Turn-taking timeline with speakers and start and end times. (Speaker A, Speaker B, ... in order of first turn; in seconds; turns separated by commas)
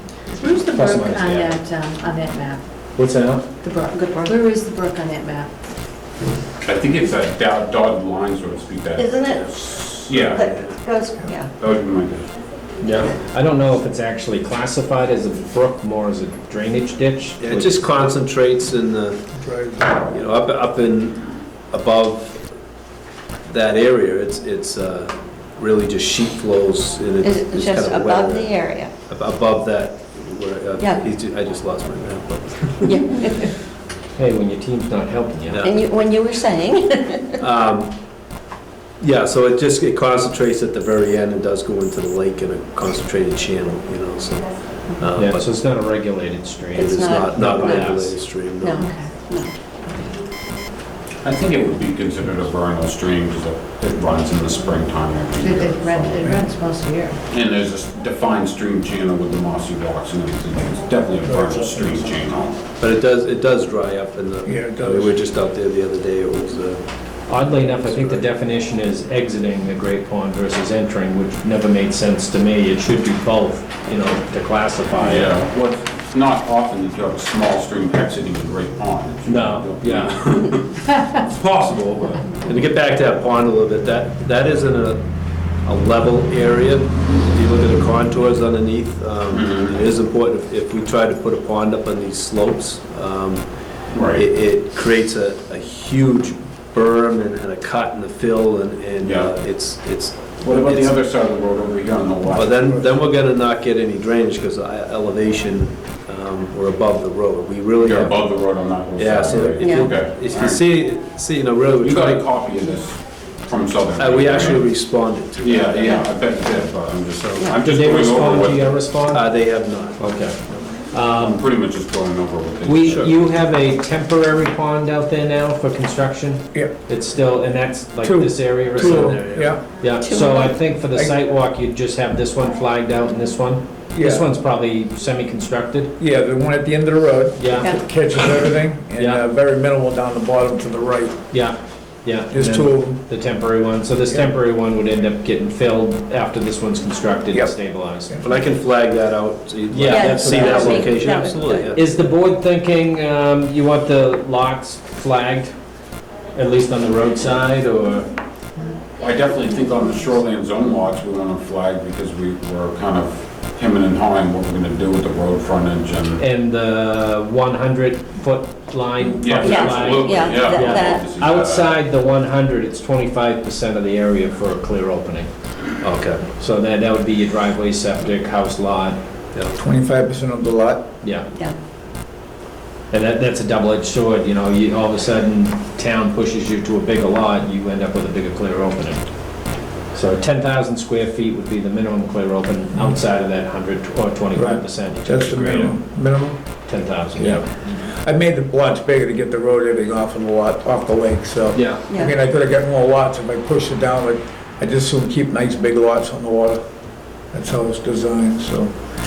Speaker A: 0.3-2.8, Speaker B: 0.6-1.6, Speaker B: 3.0-3.5, Speaker A: 3.6-5.5, Speaker C: 3.9-4.4, Speaker D: 6.6-10.7, Speaker C: 9.0-11.5, Speaker E: 10.2-10.7, Speaker D: 11.6-12.3, Speaker B: 12.8-17.8, Speaker E: 17.4-19.3, Speaker F: 19.3-20.0, Speaker E: 19.9-22.5, Speaker E: 23.4-33.0, Speaker C: 27.2-28.9, Speaker C: 30.8-31.0, Speaker C: 32.8-33.4, Speaker B: 34.1-35.7, Speaker E: 35.5-35.8, Speaker C: 35.6-37.3, Speaker E: 37.4-38.0, Speaker E: 39.0-45.5, Speaker B: 45.1-48.2, Speaker C: 46.7-47.9, Speaker E: 46.8-48.9, Speaker C: 48.6-49.5, Speaker A: 48.7-50.1, Speaker D: 51.2-56.4, Speaker A: 55.4-57.2, Speaker D: 57.3-62.6, Speaker F: 61.2-62.2, Speaker E: 62.8-68.2, Speaker F: 64.4-65.2, Speaker B: 67.3-75.3, Speaker D: 75.0-81.2, Speaker B: 79.2-80.2, Speaker B: 81.7-82.1, Speaker E: 82.3-85.1, Speaker E: 85.6-101.0, Speaker D: 89.3-89.8, Speaker D: 93.9-94.2, Speaker D: 99.0-99.3, Speaker D: 100.4-102.6, Speaker E: 102.3-112.3, Speaker F: 102.4-102.9, Speaker D: 107.8-110.6, Speaker C: 109.6-109.9, Speaker D: 111.8-114.7, Speaker E: 114.0-116.0, Speaker D: 115.4-118.8, Speaker B: 117.6-121.4, Speaker E: 119.1-120.7, Speaker D: 121.1-123.3, Speaker B: 122.6-135.9, Speaker F: 128.0-129.6, Speaker E: 128.7-129.6, Speaker C: 130.0-130.6, Speaker F: 133.9-134.3, Speaker F: 136.0-141.2, Speaker B: 137.4-137.8, Speaker B: 139.0-139.2, Speaker B: 141.3-148.2, Speaker F: 142.3-143.0, Speaker F: 147.3-147.6, Speaker E: 148.2-151.9, Speaker B: 149.7-150.9, Speaker C: 149.9-151.7, Speaker F: 150.3-150.9, Speaker B: 151.7-155.6, Speaker B: 156.3-158.1, Speaker D: 159.0-166.2, Speaker B: 166.2-175.3, Speaker D: 169.2-171.7, Speaker C: 169.4-171.1, Speaker E: 175.8-176.3, Speaker B: 176.4-179.0, Speaker F: 179.6-180.8, Speaker B: 182.9-195.8, Speaker F: 194.3-196.4, Speaker B: 196.7-197.4, Speaker F: 197.2-206.6, Speaker B: 201.5-201.8, Speaker F: 207.3-208.8